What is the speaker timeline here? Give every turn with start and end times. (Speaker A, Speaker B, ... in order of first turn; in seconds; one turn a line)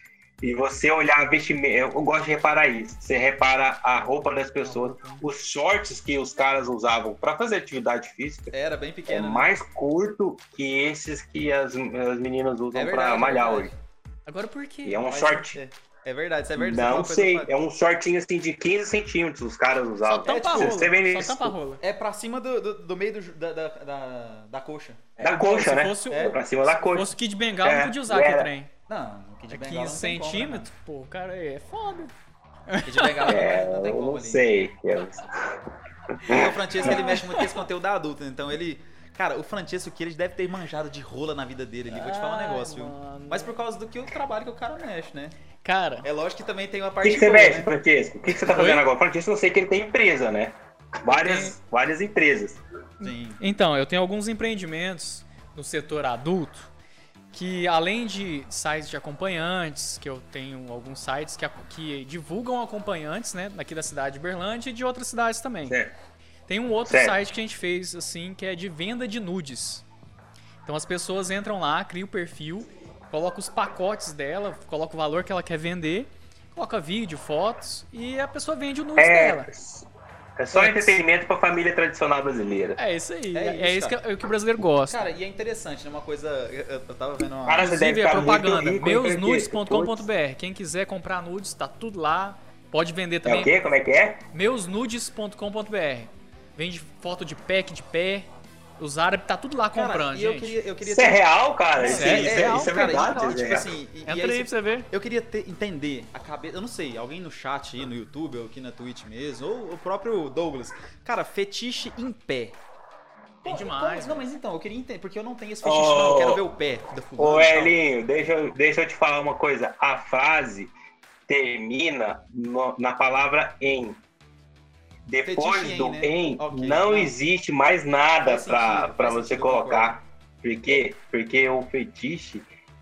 Speaker A: 0.4-8.5
Speaker B: 4.6-5.2
Speaker C: 8.5-9.5
Speaker A: 9.1-13.7
Speaker C: 12.7-13.8
Speaker B: 14.3-15.5
Speaker A: 14.8-15.6
Speaker C: 15.5-17.5
Speaker A: 16.6-21.6
Speaker B: 20.0-21.8
Speaker C: 20.2-20.9
Speaker C: 21.8-25.2
Speaker A: 25.2-28.5
Speaker B: 25.2-28.7
Speaker C: 26.1-26.4
Speaker C: 28.9-30.7
Speaker B: 29.5-32.1
Speaker B: 32.7-33.3
Speaker C: 32.9-34.5
Speaker A: 33.3-35.6
Speaker A: 36.2-37.0
Speaker C: 36.3-45.4
Speaker B: 36.8-37.6
Speaker B: 41.9-43.5
Speaker B: 45.6-46.1
Speaker C: 46.0-47.7
Speaker A: 47.0-52.6
Speaker B: 48.5-48.8
Speaker B: 51.1-51.6
Speaker B: 53.0-56.7
Speaker C: 53.0-53.4
Speaker B: 57.3-65.8
Speaker A: 65.7-65.9
Speaker B: 66.5-69.8
Speaker A: 66.9-67.2
Speaker B: 70.7-79.5
Speaker A: 79.0-79.9
Speaker A: 80.4-82.8
Speaker B: 80.5-81.0
Speaker B: 82.8-85.1
Speaker C: 83.3-84.0
Speaker C: 84.9-87.8
Speaker A: 87.5-90.1
Speaker B: 87.6-93.5
Speaker A: 93.2-94.2
Speaker B: 94.3-98.3
Speaker B: 98.8-100.6
Speaker C: 99.7-112.6
Speaker A: 100.8-103.7
Speaker B: 101.8-103.4
Speaker B: 104.1-104.9
Speaker C: 113.4-117.8
Speaker B: 113.5-114.3
Speaker A: 115.6-116.4
Speaker A: 117.2-120.7
Speaker A: 121.3-124.0
Speaker A: 125.1-132.5
Speaker C: 125.2-127.2
Speaker C: 128.2-130.0